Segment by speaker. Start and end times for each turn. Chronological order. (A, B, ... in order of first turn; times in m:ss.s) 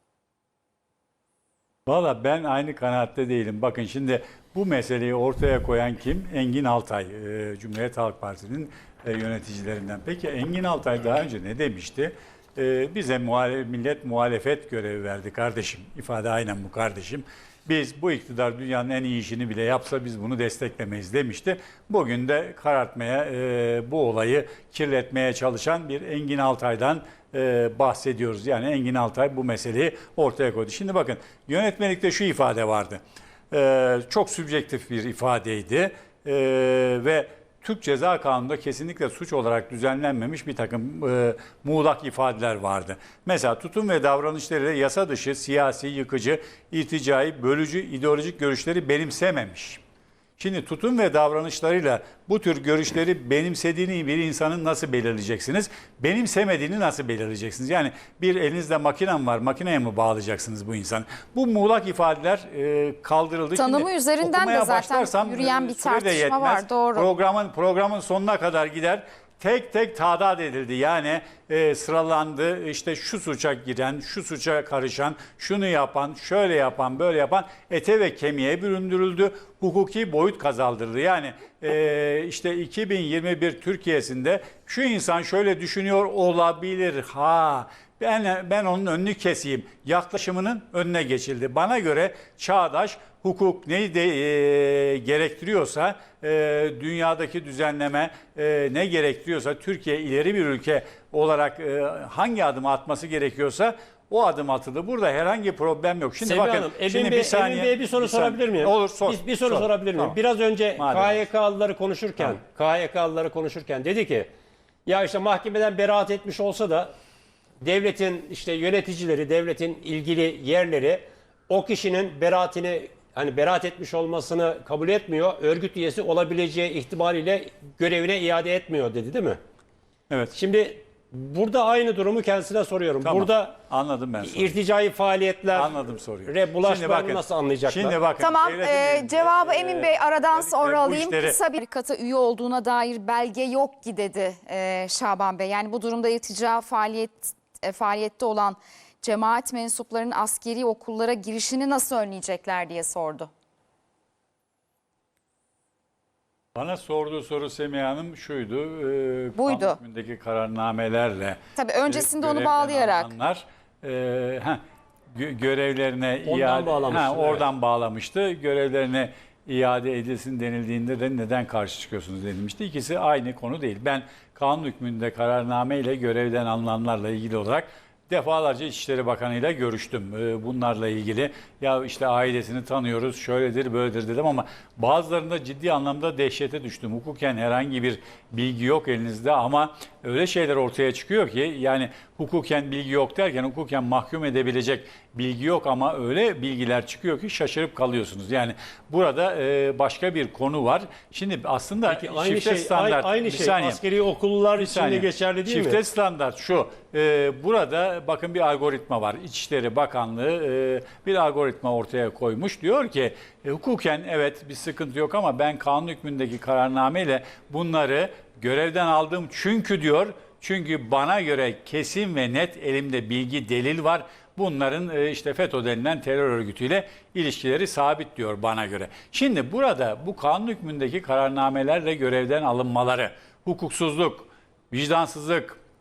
0:01.8-0:49.8 A
0:50.4-1:50.2 A
1:03.6-1:07.1 B
1:46.2-1:54.3 C
1:50.8-1:51.3 A
1:54.8-1:56.9 C
1:57.6-2:09.4 C
2:10.3-2:13.6 C
2:13.0-2:14.5 A
2:14.2-2:18.0 C
2:15.5-2:21.4 A
2:18.2-2:33.3 B
2:36.5-2:44.6 A
2:39.4-2:39.8 B
2:41.6-2:43.1 B
2:45.1-3:23.8 A
2:46.2-2:47.4 C
3:21.9-3:25.8 C
3:24.6-3:55.6 A